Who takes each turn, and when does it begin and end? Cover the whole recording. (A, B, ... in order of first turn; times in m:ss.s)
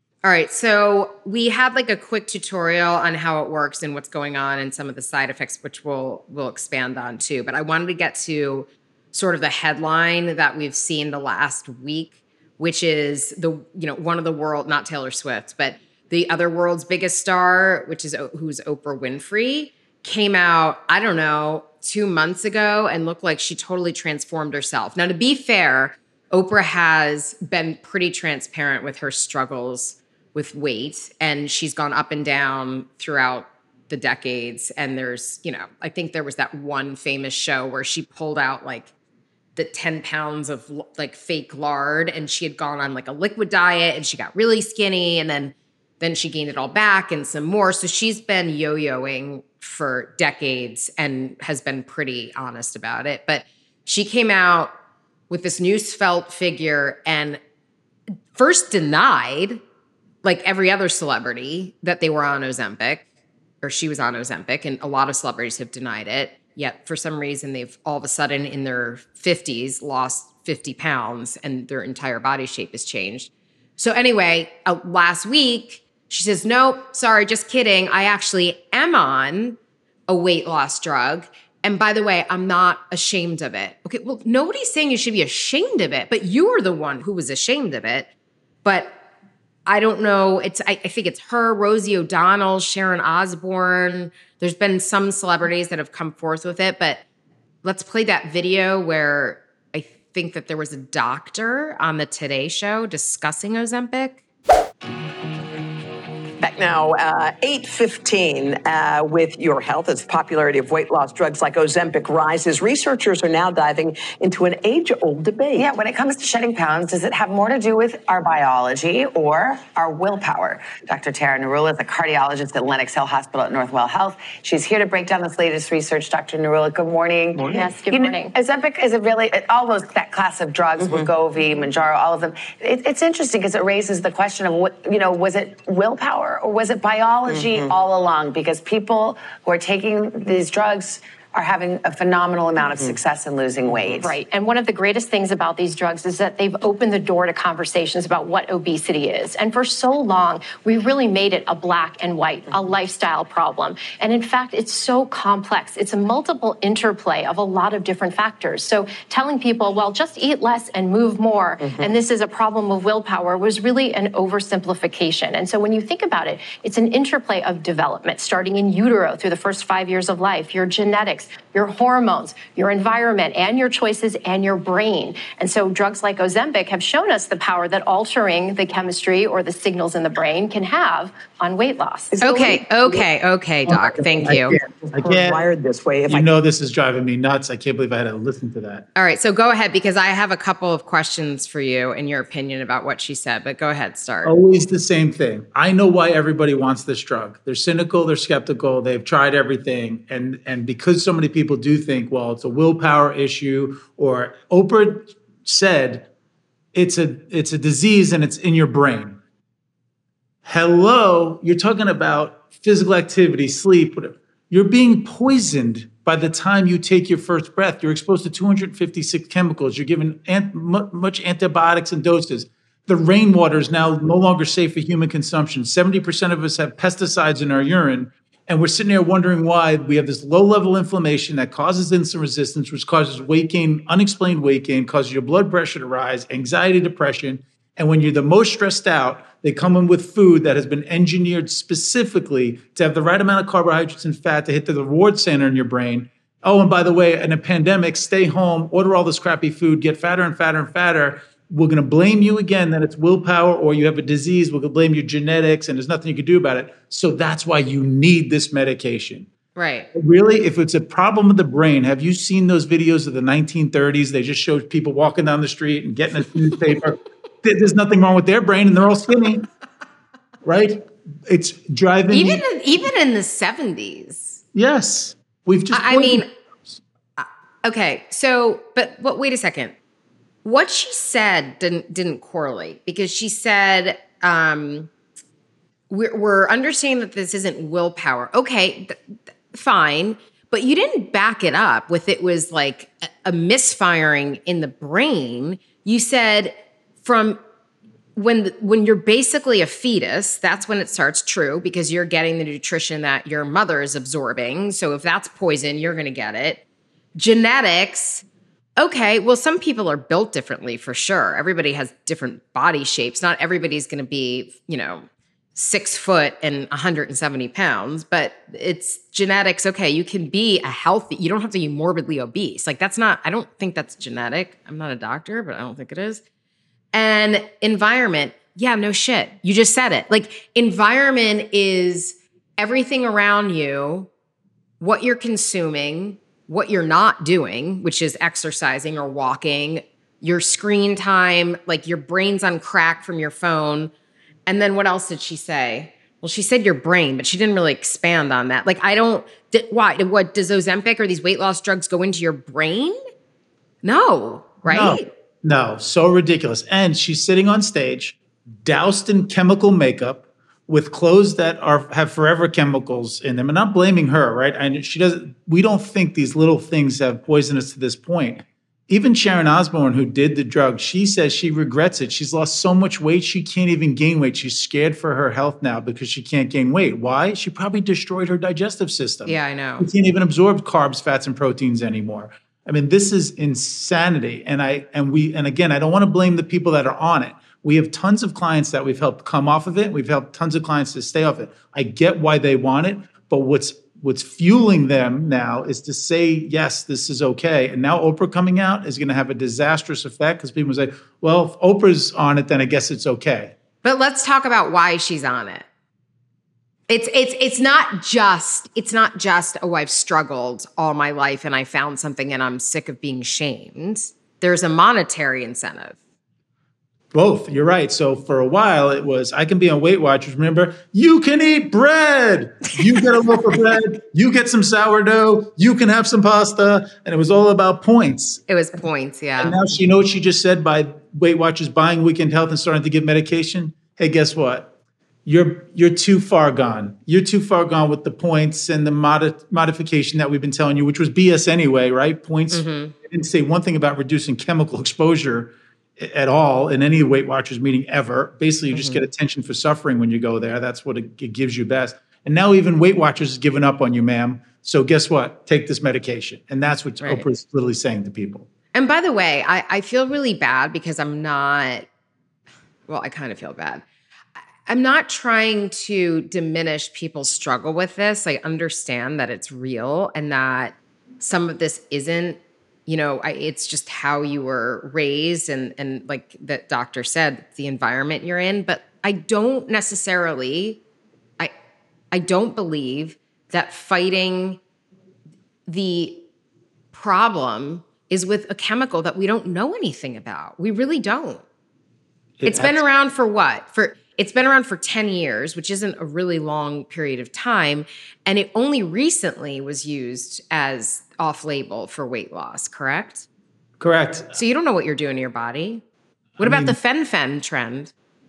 0:00.2-0:38.9 A
0:39.6-0:54.7 A
0:55.3-0:57.4 A
0:58.3-0:59.6 A
1:00.2-1:03.0 A
1:03.6-1:28.1 A
1:28.6-1:29.0 A
1:29.6-1:37.0 A
1:37.6-1:44.2 A
1:46.4-1:55.6 B
1:55.5-2:24.2 C
2:07.4-2:08.3 D
2:24.0-3:02.3 D
3:02.2-3:03.0 B
3:02.2-3:04.6 A
3:03.7-3:05.4 E
3:04.7-3:06.3 B
3:06.1-3:08.8 E
3:08.9-3:14.4 A
3:14.2-3:26.1 E
3:26.7-3:29.2 E
3:30.4-4:19.3 E
4:19.6-4:19.9 A
4:19.9-4:29.5 E
4:30.4-4:32.4 E
4:32.1-4:34.4 A
4:34.5-4:36.7 E
4:35.7-4:36.3 A
4:37.2-4:39.7 A
4:40.4-4:44.9 A
4:45.9-4:49.0 A
4:49.5-4:57.4 A
4:58.2-5:06.6 A
5:07.1-5:08.2 A
5:08.8-5:26.2 A
5:26.9-5:34.1 A
5:34.8-5:43.9 A
5:44.4-5:53.0 A
5:53.8-5:55.1 A
5:54.6-6:43.5 E
6:19.2-6:19.9 A
6:43.8-6:45.6 A
6:46.9-6:56.0 A
6:57.1-7:08.4 E
7:08.5-7:09.6 A
7:09.4-7:14.7 E
7:15.2-7:38.5 E
7:22.5-7:22.9 A
7:28.7-7:29.0 A
7:37.0-7:37.2 A
7:38.7-7:41.8 A
7:42.9-7:43.8 A
7:44.6-8:00.8 A
8:02.1-8:04.6 A
8:05.7-8:06.2 A
8:06.9-8:11.4 A
8:12.4-8:12.8 E
8:12.4-8:23.2 A
8:23.8-8:24.4 E
8:24.3-8:25.8 A
8:26.4-8:26.8 E
8:26.4-8:27.9 A